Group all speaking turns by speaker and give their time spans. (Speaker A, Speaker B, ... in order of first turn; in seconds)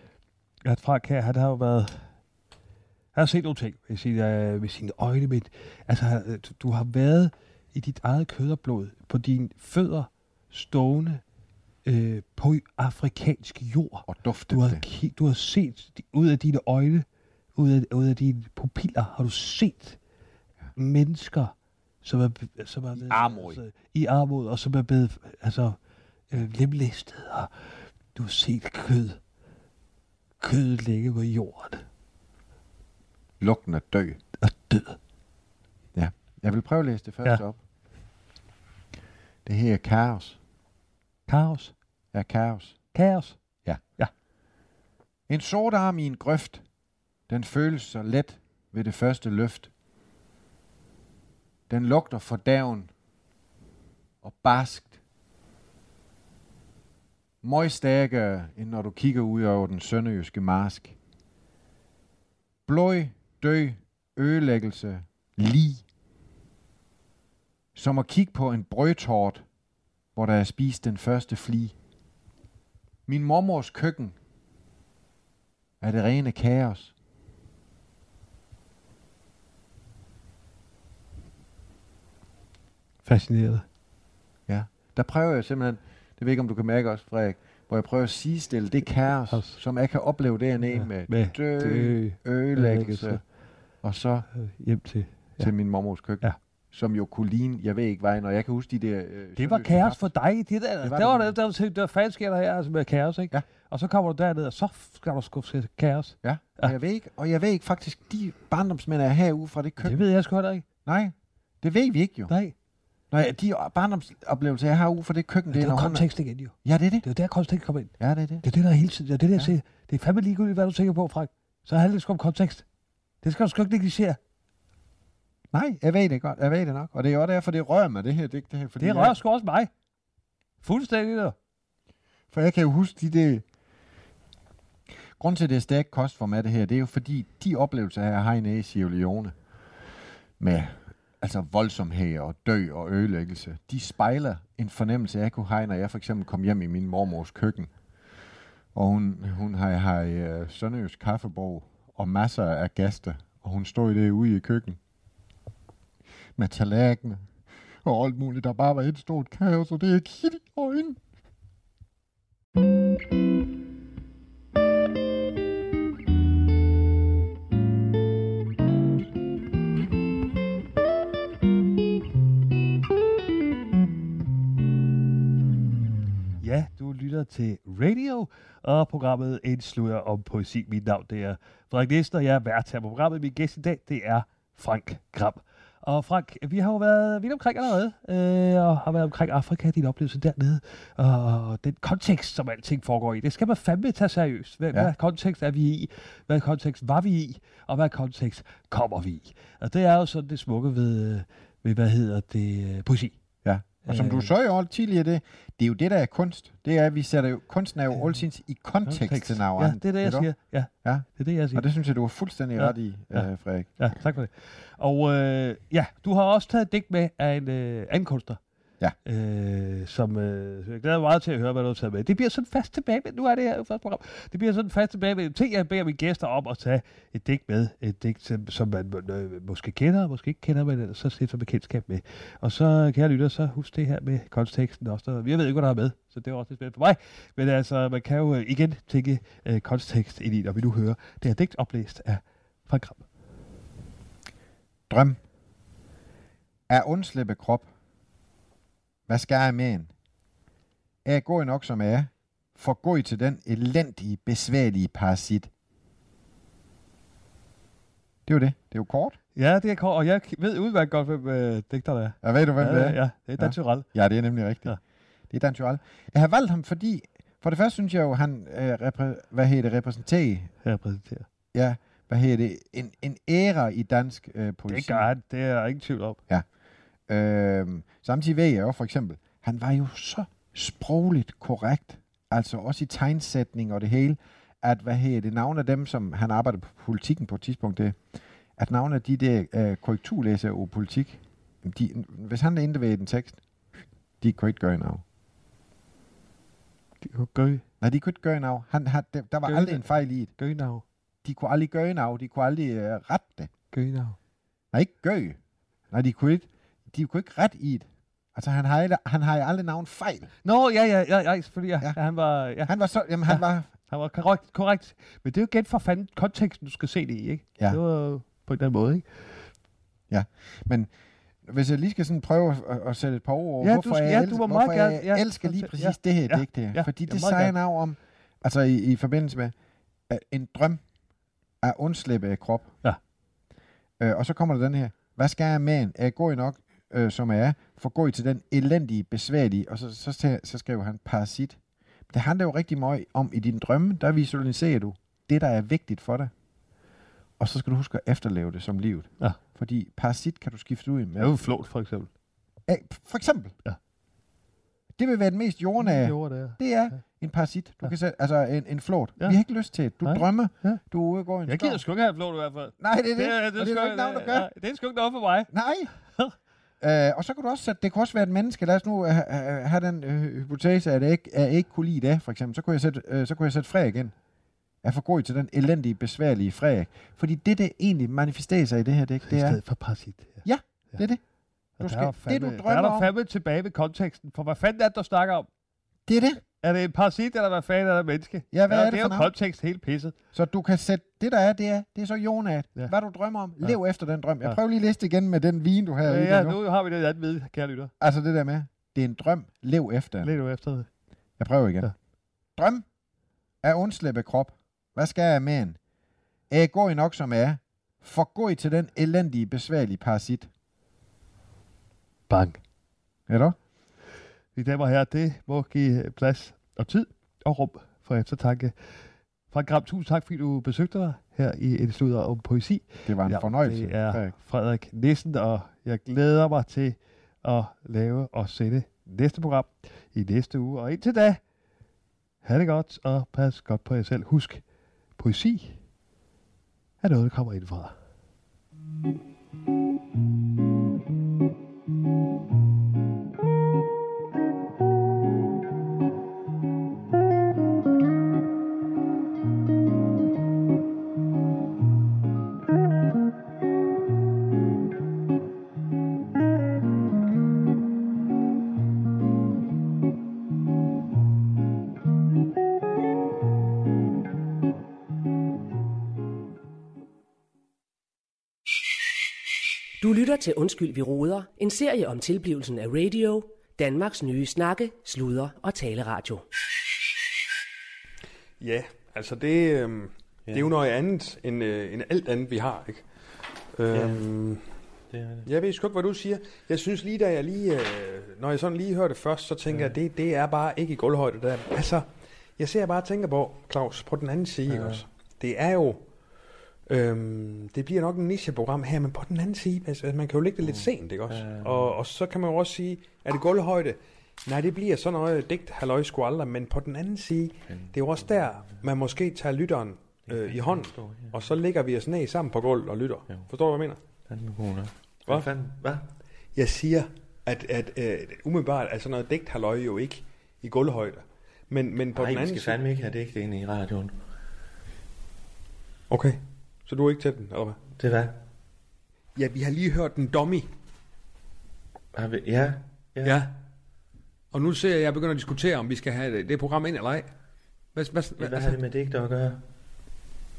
Speaker A: 0.7-2.1, 3.1-11.2, 11.8-20.0, 20.8-25.8, 26.3-27.5, 28.1-29.2, 30.4-31.9, 34.4-35.0, 41.3-41.7, 42.9-43.4, 83.0-83.7, 89.3-89.6, 90.6-93.2, 94.3-95.5, 99.4-106.7, 109.8-110.7, 112.3-112.5, 115.5-117.9, 118.4-122.7, 123.2-124.2, 128.8-129.7, 130.6-131.3, 176.4-203.2, 203.8-204.3, 208.9-211.7, 212.6-213.3, 213.8-218.4, 219.1-243.1, 259.4-263.9, 270.6-271.3, 274.7-276.2, 297.0-297.6, 299.5-299.8, 300.4-300.8, 303.7-304.2, 310.4-312.7, 313.3-319.1, 323.6-327.6, 351.2-352.1, 355.8-356.6, 360.0-360.8, 361.5-365.5, 379.3-380.4, 381.8-385.5, 386.6-390.1, 396.1-397.9, 400.2-400.9, 412.3-412.6, 414.6-418.9, 419.5-431.4, 432.4-434.6, 435.2-435.8, 437.0-437.9
Speaker B: 14.1-14.8, 22.9-23.6, 33.4-34.2, 36.0-37.6, 39.5-40.4, 42.1-42.8, 45.3-46.6, 47.3-49.7, 51.7-52.9, 54.2-55.0, 57.4-61.0, 62.7-65.8, 67.8-69.5, 70.2-71.8, 73.1-74.2, 75.8-76.9, 84.5-93.2, 93.8-94.3, 95.4-100.1, 100.8-101.3, 106.2-110.0, 110.9-112.3, 113.1-116.1, 116.6-117.0, 118.0-118.5, 125.5-129.2, 132.3-133.4, 135.2-139.3, 140.4-147.7, 148.7-154.8, 156.4-157.3, 157.8-161.0, 203.4-210.3, 210.8-213.7, 244.9-245.2, 246.7-247.7, 249.1-249.9, 251.1-255.5, 258.3-259.2, 262.2-264.8, 265.3-270.5, 271.5-275.1, 277.1-288.0, 288.6-293.4, 294.2-295.0, 297.8-300.3, 301.2-303.5, 304.7-305.4, 305.9-310.3, 312.7-313.7, 320.1-320.9, 321.4-329.5, 330.1-330.8, 331.6-332.8, 334.0-341.6, 342.1-346.3, 347.4-351.5, 352.7-353.6, 355.0-361.8, 362.8-364.5, 365.5-365.9, 366.8-374.1, 374.8-379.6, 380.4-381.2, 381.8-383.1, 386.1-386.4, 388.5-389.3, 390.3-396.6, 398.0-400.3, 401.4-401.9, 402.6-402.9, 403.6-405.8, 406.5-410.5, 413.3-413.6, 423.1-424.4
Speaker C: 470.0-476.4
Speaker D: 478.6-483.0, 483.8-484.6, 485.4-492.1, 492.6-496.1, 496.9-514.0, 516.5-522.8, 526.1-527.8, 529.4-530.7, 533.2-533.5, 534.5-537.3, 538.0-538.8
Speaker E: 483.9-484.2, 485.1-485.5, 494.7-495.0, 500.6-501.9, 510.3-511.4, 514.3-516.0, 522.1-524.1, 528.0-528.4, 532.1-533.4, 538.4-539.6